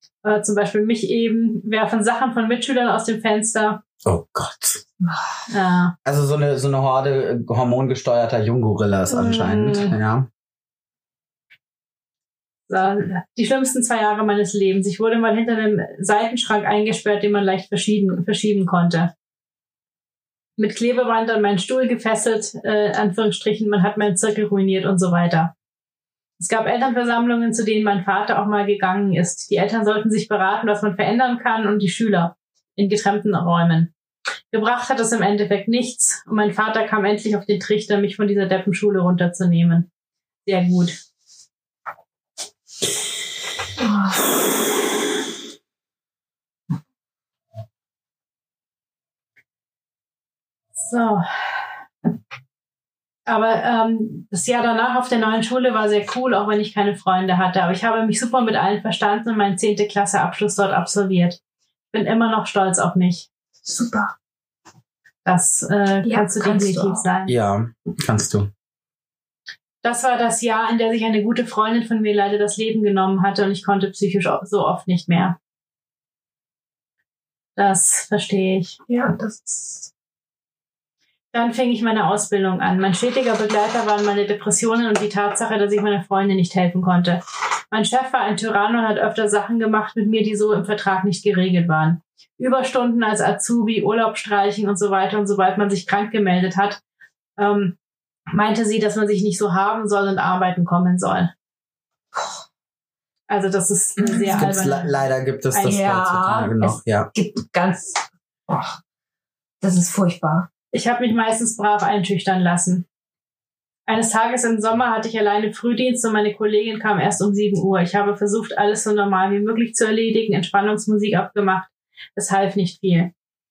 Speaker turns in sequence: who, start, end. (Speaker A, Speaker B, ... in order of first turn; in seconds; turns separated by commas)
Speaker A: 0.2-3.8, Speaker B: 4.0-4.8, Speaker C: 5.0-5.3, Speaker A: 5.5-5.9, Speaker B: 6.0-10.3, Speaker A: 9.1-9.9, Speaker A: 12.7-19.1, Speaker A: 20.6-25.5, Speaker A: 26.4-33.9, Speaker A: 34.5-39.9, Speaker A: 40.5-41.0, Speaker C: 43.8-44.2, Speaker A: 50.8-51.2, Speaker A: 53.3-61.4, Speaker A: 61.9-63.3, Speaker C: 63.6-64.1, Speaker A: 65.2-67.3, Speaker C: 66.0-67.0, Speaker B: 67.3-68.5, Speaker A: 69.8-75.4, Speaker A: 77.6-78.8, Speaker C: 78.9-79.9, Speaker A: 81.3-96.8, Speaker A: 97.4-97.8, Speaker A: 98.3-101.3, Speaker A: 103.3-105.0, Speaker C: 104.0-104.4, Speaker B: 104.3-107.1, Speaker A: 105.5-105.8, Speaker C: 105.6-108.8, Speaker C: 109.6-110.5, Speaker A: 110.7-112.8, Speaker A: 113.9-123.1